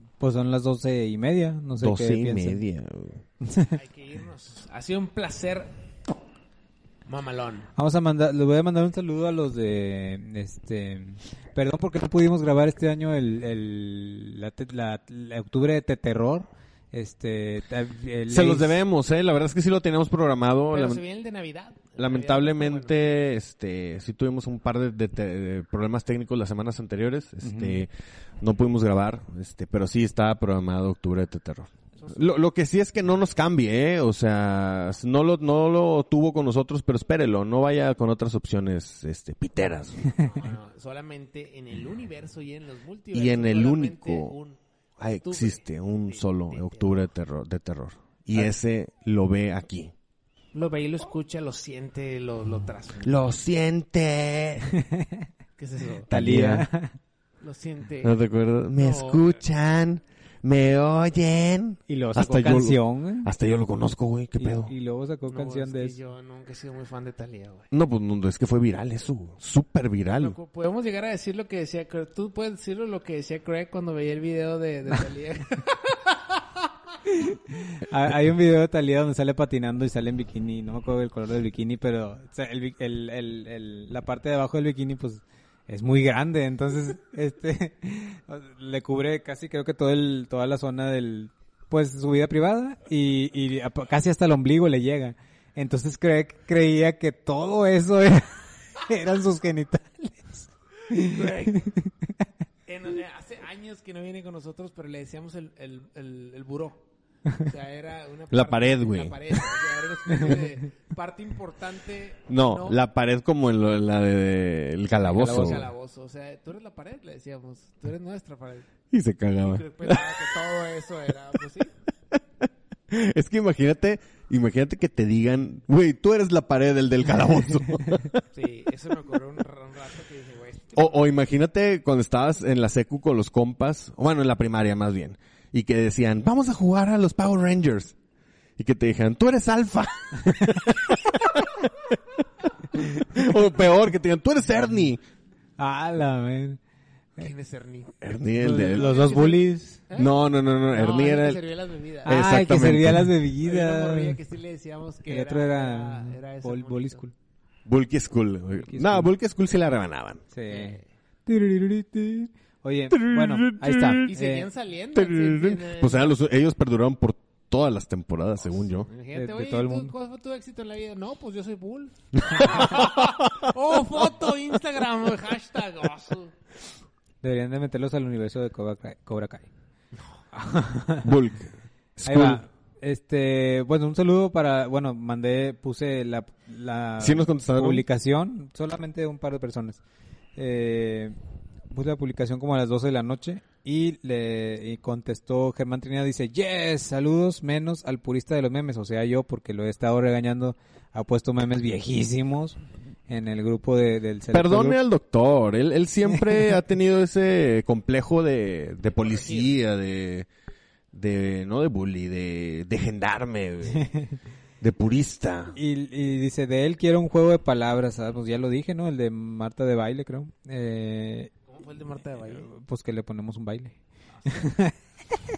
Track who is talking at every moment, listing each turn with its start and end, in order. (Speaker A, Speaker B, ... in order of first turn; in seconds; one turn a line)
Speaker A: 0.2-2.6
Speaker B: 1.8-3.2
Speaker A: 3.4-3.8
Speaker C: 3.7-5.7
Speaker C: 7.1-7.7
Speaker A: 7.8-18.8
Speaker B: 18.3-21.0
Speaker C: 20.7-23.1
Speaker B: 22.0-27.9
Speaker A: 27.4-27.8
Speaker B: 28.4-40.1
Speaker C: 32.0-32.4
Speaker C: 40.2-47.0
Speaker B: 43.1-44.4
Speaker B: 45.0-49.9
Speaker C: 50.5-53.2
Speaker B: 53.0-54.7
Speaker A: 54.8-55.2
Speaker C: 55.6-56.1
Speaker B: 56.1-56.7
Speaker A: 56.1-57.0
Speaker C: 57.4-58.2
Speaker B: 58.0-64.7
Speaker C: 58.8-59.4
Speaker A: 61.9-63.3
Speaker A: 64.4-66.0
Speaker C: 65.3-67.7
Speaker B: 67.7-70.4
Speaker C: 70.1-76.7
Speaker A: 77.1-102.1
Speaker C: 100.9-101.7
Speaker C: 102.7-106.8
Speaker C: 107.4-112.8
Speaker B: 108.3-109.4
Speaker B: 112.3-115.7
Speaker C: 115.0-118.7
Speaker B: 118.9-120.0
Speaker C: 119.4-121.7
Speaker B: 122.9-128.2
Speaker C: 128.3-131.1
Speaker B: 130.8-137.9
Speaker B: 138.6-142.0
Speaker B: 142.7-145.0
Speaker A: 145.6-146.6
Speaker C: 147.2-147.9
Speaker B: 148.0-148.9
Speaker A: 148.3-149.8
Speaker C: 148.7-150.2
Speaker B: 150.0-151.4
Speaker C: 150.7-152.2
Speaker A: 152.1-154.2
Speaker B: 152.1-153.2
Speaker C: 153.4-157.1
Speaker A: 155.1-157.1
Speaker B: 157.7-160.2
Speaker A: 158.7-159.1
Speaker A: 160.3-164.5
Speaker C: 160.5-160.9
Speaker B: 162.9-164.1
Speaker C: 164.1-166.2
Speaker B: 164.9-168.9
Speaker C: 168.8-176.4
Speaker A: 169.1-169.9
Speaker A: 177.2-179.5
Speaker A: 180.3-181.1
Speaker B: 181.0-182.4
Speaker A: 182.0-189.8
Speaker B: 187.0-187.9
Speaker A: 190.4-191.2
Speaker A: 191.7-204.8
Speaker B: 204.3-210.3
Speaker C: 209.0-209.5
Speaker B: 210.9-213.9
Speaker A: 213.7-214.2
Speaker B: 214.6-215.6
Speaker A: 215.6-221.3
Speaker C: 221.5-222.5
Speaker A: 222.4-224.7
Speaker C: 224.2-224.5